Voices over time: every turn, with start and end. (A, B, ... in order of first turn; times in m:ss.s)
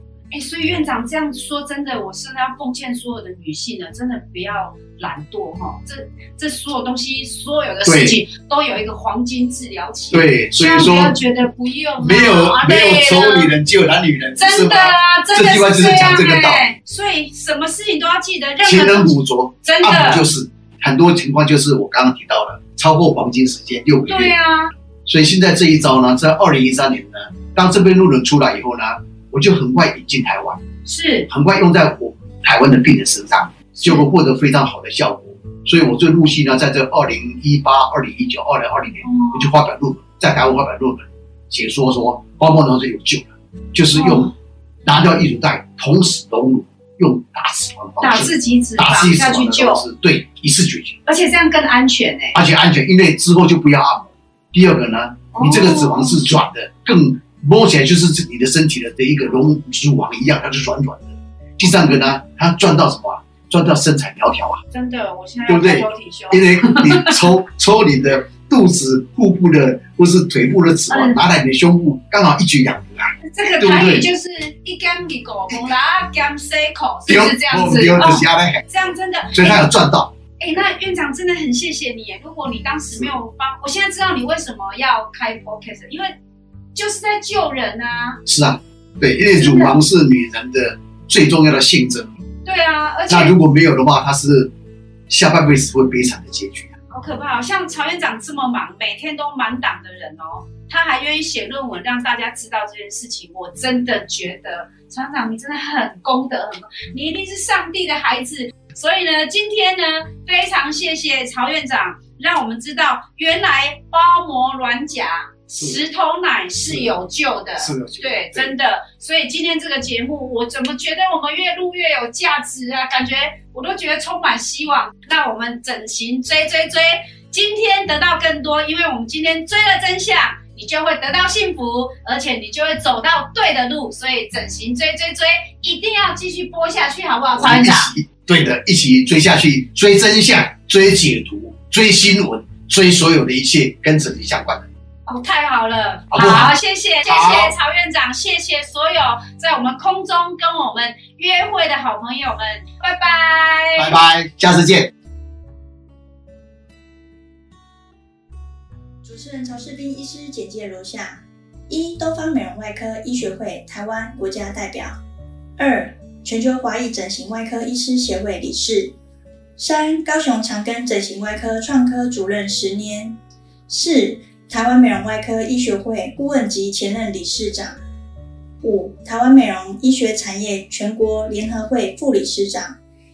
0:00.3-0:13.5 A
0:07.8-0:08.2 B
0:10.1-0:11.2 B
0:12.0-0:16.7 B
0:14.4-0:20.3 A
0:18.6-0:24.3 B
0:24.1-0:24.7 A
0:25.1-0:30.6 B
0:30.8-0:31.3 A
0:31.3-0:44.3 B
0:33.7-0:34.1 A
0:39.0-0:39.6 A
0:43.9-0:44.3 A
0:44.8-0:51.0 B
0:48.0-0:49.8 A
0:51.1-0:52.4 A
0:52.3-1:04.6 B
0:55.3-0:56.2 A
1:01.7-1:02.0 A
1:04.7-1:07.2 A
1:05.5-1:14.1 B
1:10.9-1:11.2 A
1:13.2-1:19.6 A
1:17.1-1:18.6 B
1:19.3-1:20.1 B
1:20.4-1:26.1 A
1:26.8-1:28.2 A
1:28.3-1:32.1 B
1:29.3-1:29.8 A
1:32.4-1:33.4 A
1:33.1-1:34.5 B
1:35.1-1:36.7 B
1:36.9-2:17.9 A
1:57.6-1:58.5 B
2:17.4-2:24.7 B
2:25.1-2:34.0 A
2:26.1-2:26.6 B
2:27.1-2:27.6 B
2:33.8-2:34.9 B
2:39.0-2:44.9 C
2:45.6-2:49.0 C
2:49.6-2:53.2 C
2:53.7-2:57.8 C
2:58.6-3:02.8 C